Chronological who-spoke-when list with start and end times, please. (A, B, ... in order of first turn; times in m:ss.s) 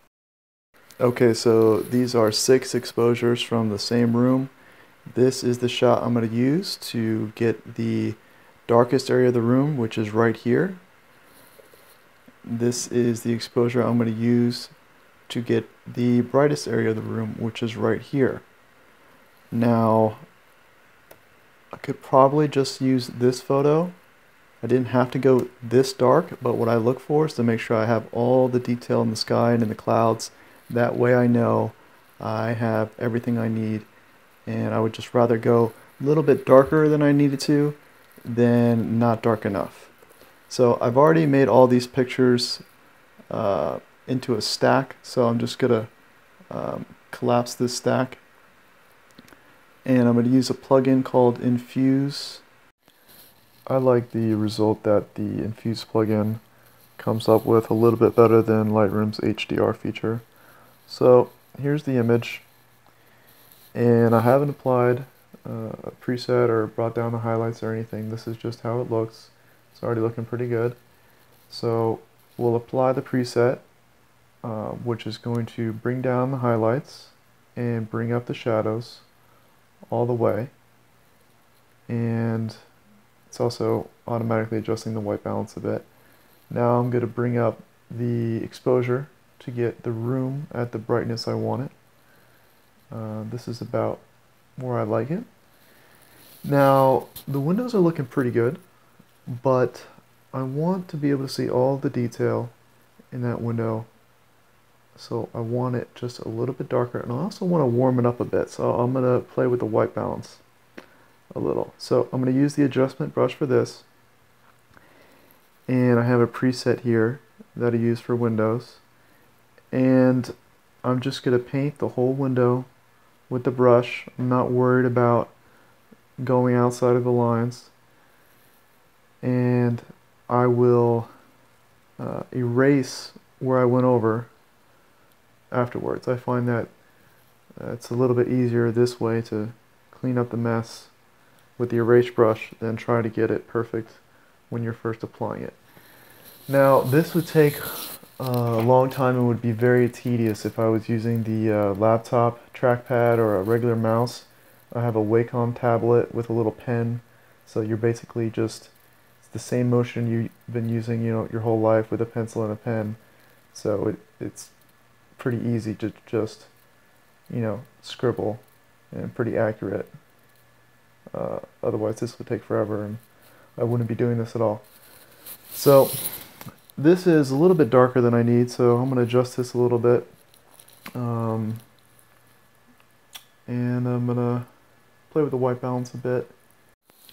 0:01.0-0:04.5 A
0:05.1-0:10.8 A
0:12.4-0:14.7 A
0:15.3-0:18.4 A
0:19.5-0:20.2 A
0:21.7-0:24.0 A
0:24.6-0:33.9 A
0:34.4-0:39.9 A
0:40.5-0:42.6 A
0:43.3-0:45.9 A
0:46.5-0:48.2 A
0:49.8-0:52.4 A
0:53.7-0:56.4 A
0:57.0-1:00.2 A
1:00.9-1:02.4 A
1:03.7-1:10.8 A
1:11.5-1:13.6 A
1:14.4-1:19.0 A
1:19.9-1:20.5 A
1:21.9-1:22.6 A
1:23.3-1:25.8 A
1:26.5-1:31.7 A
1:32.9-1:34.0 A
1:34.6-1:35.3 A
1:36.4-1:38.6 A
1:39.3-1:42.5 A
1:43.1-1:43.9 A
1:45.0-1:50.4 A
1:51.3-1:53.8 A
1:55.7-1:58.8 A
1:59.7-2:00.3 A
2:00.8-2:02.7 A
2:03.3-2:05.3 A
2:06.2-2:07.7 A
2:09.2-2:11.1 A
2:12.0-2:14.3 A
2:15.5-2:16.7 A
2:17.6-2:20.9 A
2:21.6-2:25.6 A
2:26.5-2:43.0 A
2:43.5-2:44.5 A
2:45.2-2:46.5 A
2:47.3-2:49.9 A
2:51.1-2:53.0 A
2:53.6-2:54.7 A
2:55.5-3:00.1 A
3:01.0-3:01.6 A
3:03.4-3:04.5 A
3:05.1-3:06.3 A